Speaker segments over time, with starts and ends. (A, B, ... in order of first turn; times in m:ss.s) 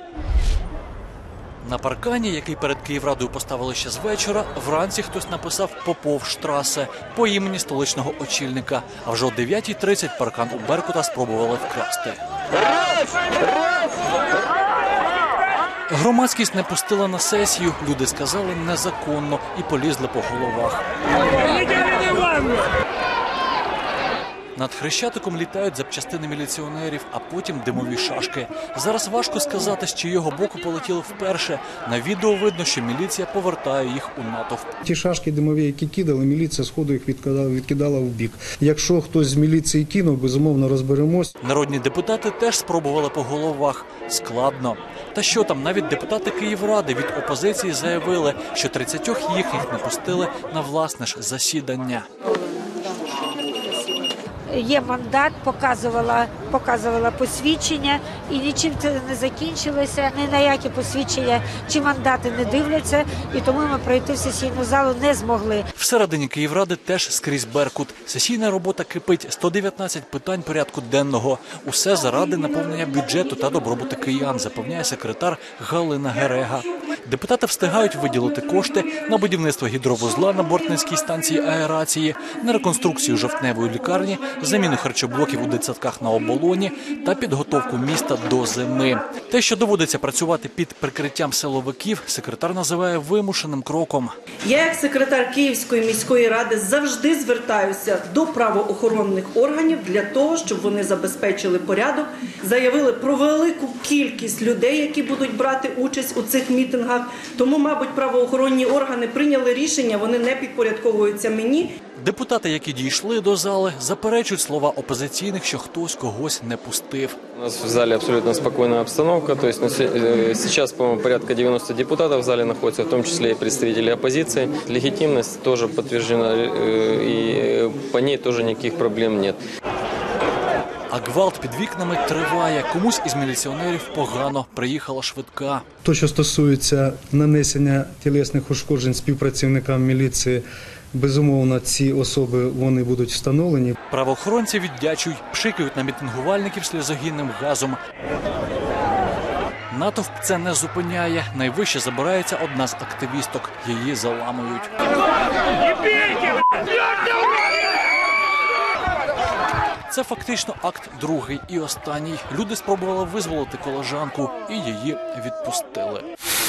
0:01.6-0:12.2 A
0:15.9-0:20.8 A
0:21.5-0:21.8 A
0:24.6-0:34.7 A
0:34.8-0:41.3 B
0:41.4-0:52.1 A
0:54.5-1:05.7 C
1:05.8-1:34.1 A
1:34.4-1:51.7 D
1:52.0-1:57.2 A
1:57.4-2:09.4 E
2:10.9-2:15.6 A
2:15.8-2:20.4 B
2:20.9-2:23.8 B
2:23.9-2:27.8 A
2:29.7-2:34.8 A
2:39.9-2:46.1 A